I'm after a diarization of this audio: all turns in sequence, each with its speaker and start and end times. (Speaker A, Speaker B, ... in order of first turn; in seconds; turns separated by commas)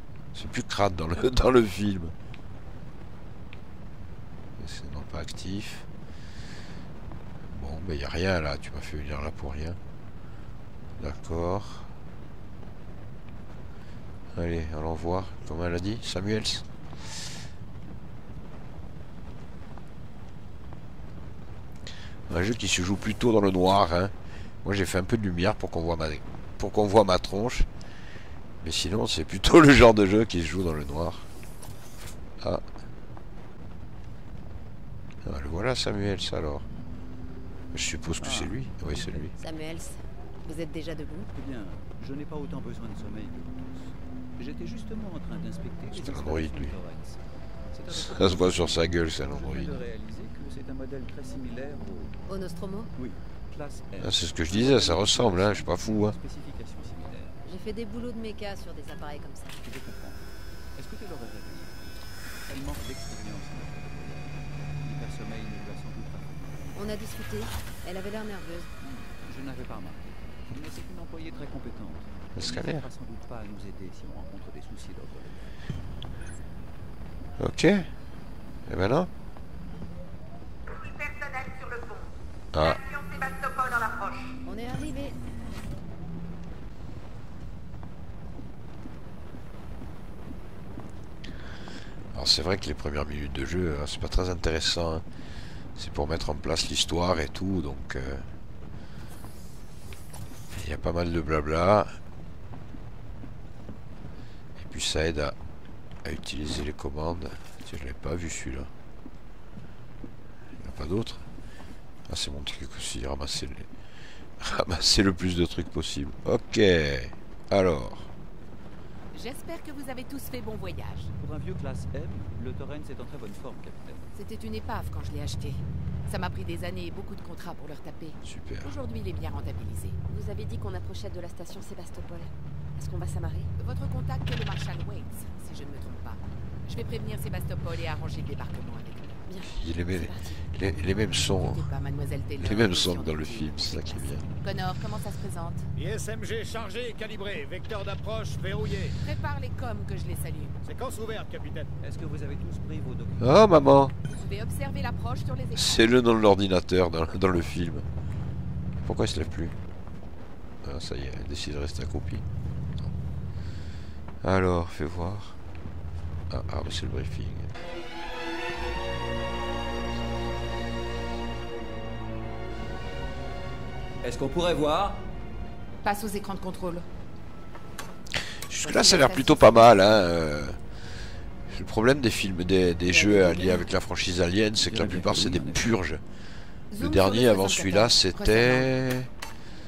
Speaker A: 0.3-2.1, Speaker A: 4.6-5.9, Speaker A: 7.5-9.8, Speaker A: 11.0-11.9, Speaker A: 14.3-16.7, Speaker A: 22.3-27.7, Speaker A: 28.6-31.3, Speaker A: 32.4-32.6, Speaker A: 35.2-36.7, Speaker A: 37.7-39.3, Speaker B: 38.2-39.3, Speaker C: 39.4-41.3, Speaker B: 41.3-47.2, Speaker A: 45.9-46.7, Speaker B: 47.7-52.1, Speaker A: 47.9-49.8, Speaker C: 52.3-52.9, Speaker B: 53.0-57.4, Speaker A: 54.0-56.2, Speaker C: 57.5-59.6, Speaker B: 59.6-60.2, Speaker B: 60.8-61.8, Speaker B: 62.5-66.5, Speaker C: 66.7-68.7, Speaker B: 68.8-75.6, Speaker A: 72.3-72.8, Speaker A: 77.4-77.9, Speaker A: 78.7-79.1, Speaker D: 80.7-84.4, Speaker A: 82.5-82.8, Speaker C: 84.4-85.2, Speaker A: 92.1-95.0, Speaker A: 95.8-98.2, Speaker A: 100.5-101.9, Speaker A: 104.6-105.3, Speaker A: 106.0-108.7, Speaker A: 110.6-111.2, Speaker A: 112.1-113.7, Speaker A: 114.4-118.1, Speaker E: 119.1-121.1, Speaker B: 121.2-124.1, Speaker E: 124.1-130.0, Speaker A: 128.2-128.7, Speaker F: 130.1-133.5, Speaker E: 133.6-139.2, Speaker F: 139.2-140.4, Speaker A: 139.5-141.7, Speaker E: 140.8-145.7, Speaker A: 142.4-144.2, Speaker G: 145.8-149.0, Speaker E: 149.0-150.6, Speaker G: 150.6-151.7, Speaker B: 151.8-153.5, Speaker A: 153.2-153.9, Speaker E: 154.1-155.9, Speaker A: 155.5-157.8, Speaker A: 158.8-159.6, Speaker A: 160.6-162.2, Speaker A: 164.2-165.4, Speaker A: 166.3-167.5, Speaker B: 174.0-175.0, Speaker E: 175.8-176.8, Speaker A: 178.5-180.6, Speaker E: 178.6-179.9, Speaker A: 181.5-186.0, Speaker E: 182.9-183.4, Speaker B: 184.7-185.7, Speaker E: 186.7-188.7, Speaker A: 186.8-189.1